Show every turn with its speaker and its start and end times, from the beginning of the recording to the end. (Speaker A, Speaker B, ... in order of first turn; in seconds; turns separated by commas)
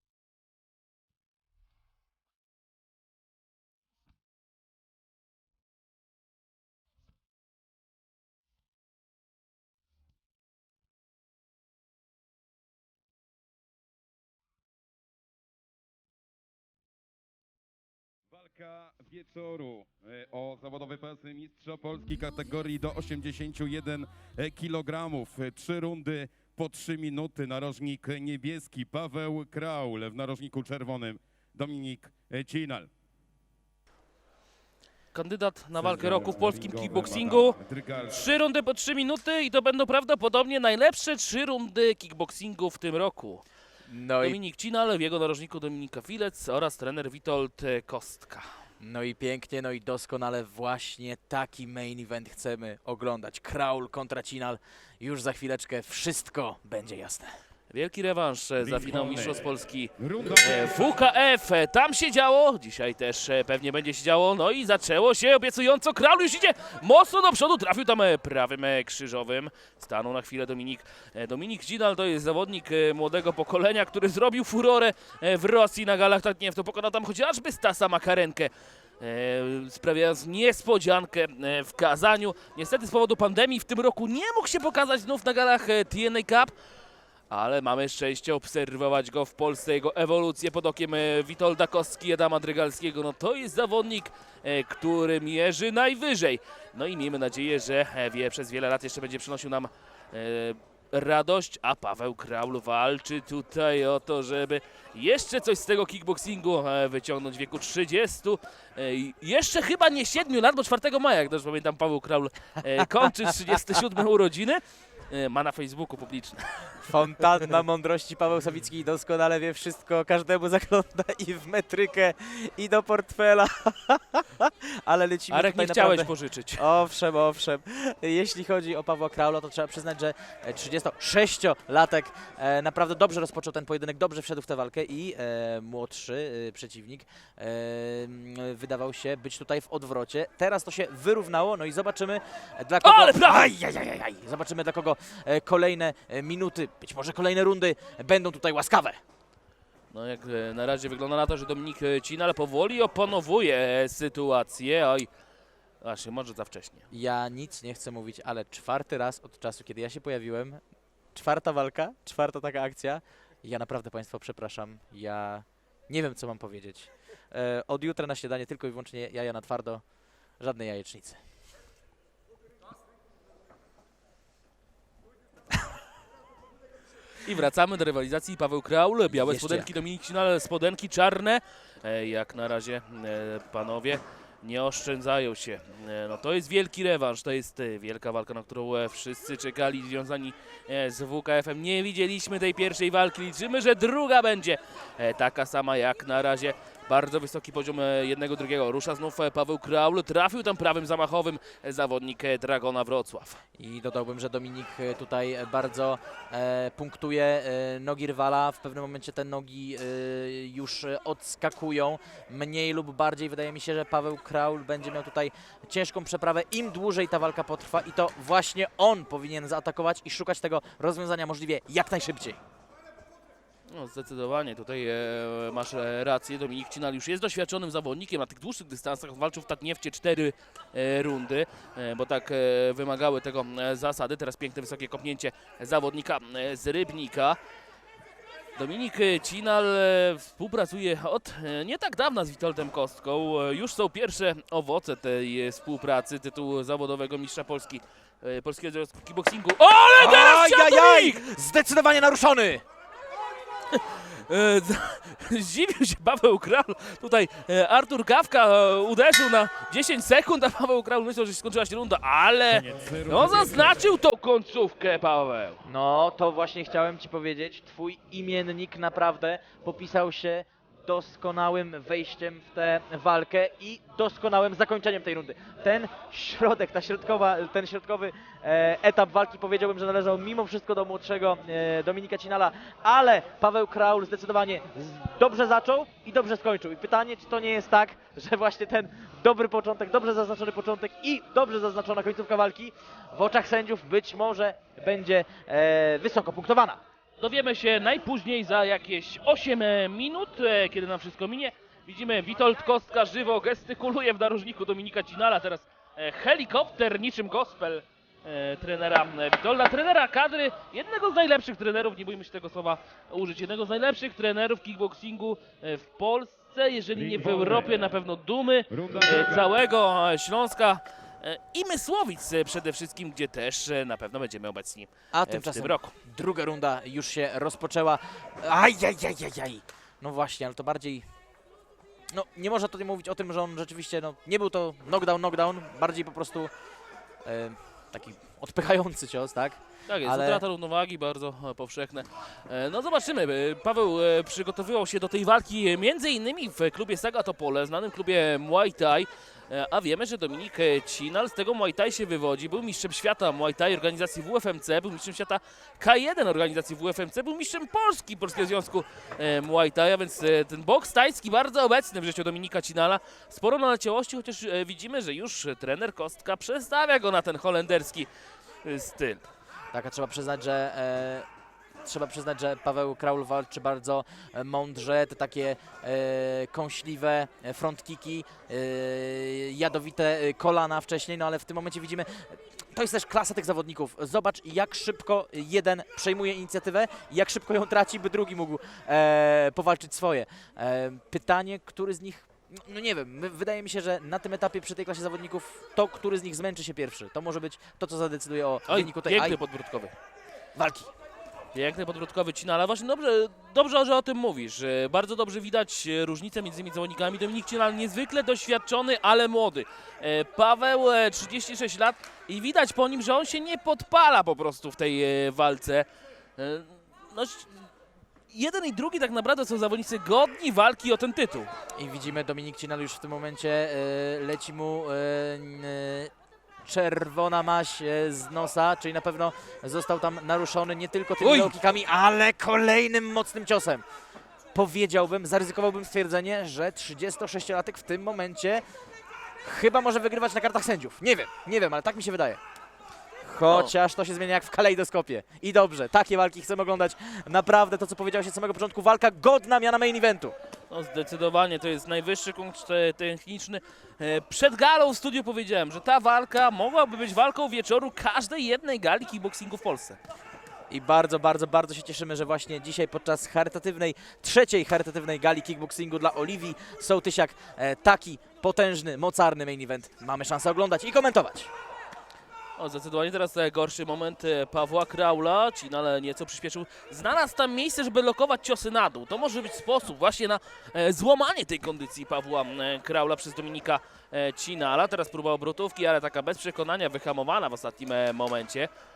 Speaker A: 18.3-32.9, Speaker B: 35.1-43.5, Speaker A: 35.8-38.2, Speaker C: 43.9-44.4, Speaker B: 44.2-48.5, Speaker C: 48.8-57.3, Speaker B: 57.7-86.5, Speaker A: 58.6-61.0, Speaker B: 87.3-117.0, Speaker C: 113.0-113.6, Speaker C: 116.8-149.0, Speaker B: 125.3-126.6, Speaker B: 142.8-143.6, Speaker B: 149.9-155.1, Speaker B: 155.8-156.8, Speaker C: 156.9-160.6, Speaker C: 161.1-169.8, Speaker C: 170.4-171.2, Speaker B: 177.2-203.4, Speaker C: 179.1-179.7, Speaker C: 203.6-222.4, Speaker B: 223.7-237.4, Speaker B: 238.6-251.2, Speaker C: 250.0-252.6, Speaker B: 253.7-265.6, Speaker A: 262.5-263.9, Speaker C: 265.6-296.8, Speaker B: 297.2-325.9, Speaker A: 316.9-317.7, Speaker A: 318.7-319.6, Speaker C: 325.1-331.0, Speaker C: 332.1-336.5, Speaker C: 337.2-340.4, Speaker B: 339.9-368.1, Speaker B: 368.6-369.2, Speaker C: 369.7-371.3, Speaker C: 371.8-399.4, Speaker B: 398.7-399.9, Speaker C: 400.6-400.9, Speaker B: 401.5-415.9, Speaker B: 416.4-417.7, Speaker B: 418.3-421.5, Speaker C: 421.8-426.1, Speaker C: 426.6-433.8, Speaker B: 431.2-431.6, Speaker C: 434.5-438.6, Speaker C: 439.4-442.4, Speaker C: 443.2-450.4, Speaker B: 443.5-443.7, Speaker B: 450.7-460.0, Speaker C: 460.7-471.5, Speaker B: 472.6-488.7